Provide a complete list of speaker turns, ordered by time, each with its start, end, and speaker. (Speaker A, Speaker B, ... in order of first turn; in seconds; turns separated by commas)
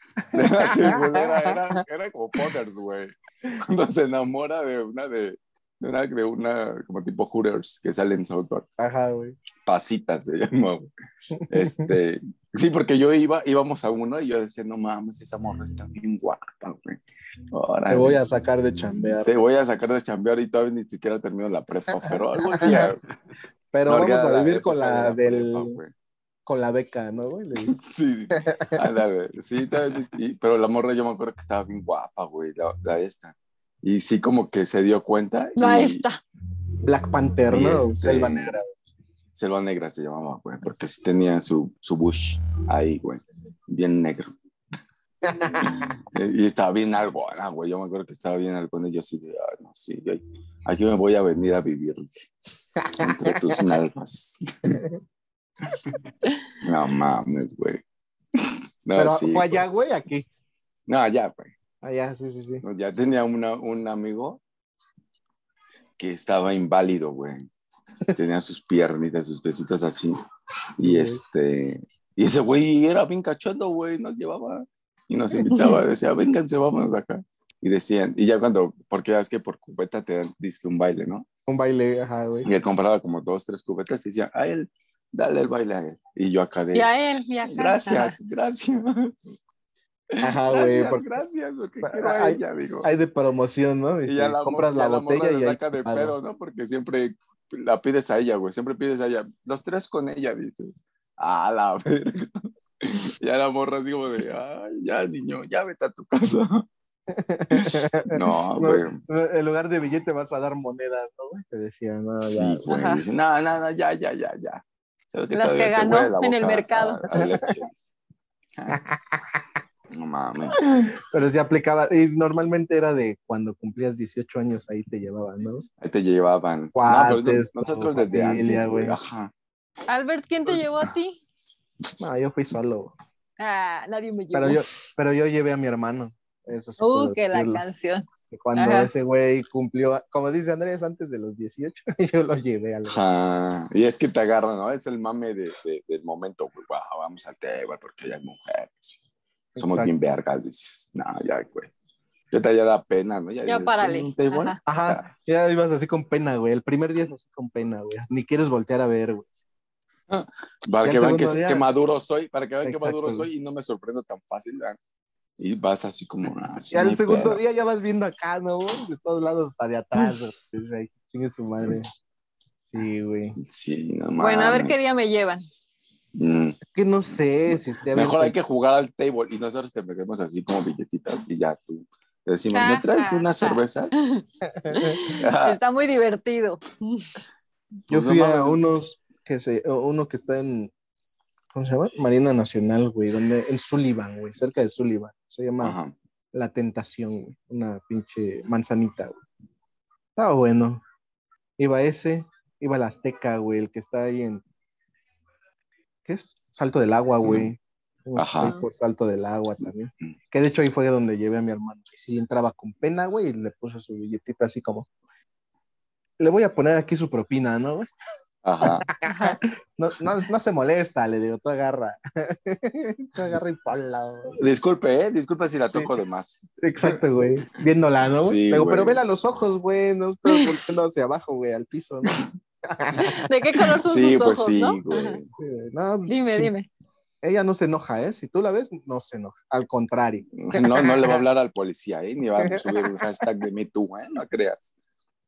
Speaker A: 0.3-8.7, Speaker B: 0.4-1.5, Speaker B: 8.8-9.3, Speaker A: 9.7-10.9, Speaker B: 11.3-11.9, Speaker A: 11.5-17.0, Speaker A: 17.5-18.2, Speaker B: 17.9-19.3, Speaker A: 19.2-23.0, Speaker B: 22.5-22.9, Speaker B: 23.7-25.8, Speaker A: 23.9-25.9, Speaker B: 26.4-27.7, Speaker A: 27.6-36.0, Speaker B: 28.4-28.8, Speaker C: 35.6-36.2, Speaker B: 36.9-38.8, Speaker A: 37.5-38.6, Speaker A: 39.3-44.3, Speaker B: 45.3-45.8, Speaker A: 45.6-52.3, Speaker B: 52.9-53.6, Speaker A: 53.0-54.8, Speaker A: 56.6-57.8, Speaker A: 58.3-59.6, Speaker B: 59.0-60.3, Speaker A: 60.9-61.5, Speaker B: 61.8-62.6, Speaker A: 62.6-64.4, Speaker A: 66.0-67.5, Speaker A: 68.1-70.2, Speaker A: 70.8-81.2, Speaker B: 70.8-71.2, Speaker C: 75.5-75.8, Speaker B: 81.5-82.5, Speaker A: 82.4-86.9, Speaker C: 86.7-88.2, Speaker A: 87.4-89.4, Speaker A: 90.2-92.9, Speaker B: 90.2-91.1, Speaker B: 91.8-96.2, Speaker A: 94.0-106.7, Speaker B: 107.1-112.7, Speaker A: 107.5-109.0, Speaker A: 112.2-117.9, Speaker C: 112.7-113.0, Speaker C: 115.3-117.0, Speaker A: 119.9-120.6, Speaker B: 120.5-125.6, Speaker A: 125.8-129.3, Speaker B: 126.7-128.9, Speaker C: 129.9-131.2, Speaker B: 132.0-132.9, Speaker C: 133.4-134.6, Speaker B: 134.3-137.7, Speaker C: 136.8-138.9, Speaker B: 138.3-143.0, Speaker A: 142.8-149.0, Speaker B: 149.6-149.9, Speaker A: 149.6-151.7, Speaker A: 152.3-155.1, Speaker C: 153.4-154.6, Speaker B: 154.7-159.3, Speaker A: 160.1-164.8, Speaker B: 160.8-161.6, Speaker B: 162.6-163.3, Speaker A: 165.4-167.4, Speaker B: 166.7-171.9, Speaker B: 172.7-173.4, Speaker A: 173.4-174.9, Speaker C: 174.2-175.4, Speaker A: 176.1-176.6, Speaker B: 176.7-178.3, Speaker A: 177.5-183.9, Speaker C: 182.5-187.2, Speaker B: 184.6-185.0, Speaker A: 185.1-185.6, Speaker A: 187.9-188.6, Speaker B: 187.9-190.7, Speaker B: 191.5-195.8, Speaker A: 195.6-195.9, Speaker B: 196.3-199.2, Speaker B: 200.2-200.8, Speaker B: 201.6-204.4, Speaker B: 206.0-214.9, Speaker A: 207.2-207.5, Speaker A: 208.2-208.5, Speaker B: 216.2-217.9, Speaker A: 218.4-218.8, Speaker B: 218.6-224.4, Speaker C: 219.0-219.4, Speaker A: 224.4-227.0, Speaker B: 226.6-233.2, Speaker A: 228.2-229.0, Speaker C: 233.0-235.2, Speaker A: 233.8-235.3, Speaker B: 235.4-236.5, Speaker C: 236.1-236.7, Speaker B: 237.2-241.2, Speaker A: 240.3-244.7, Speaker B: 242.8-243.0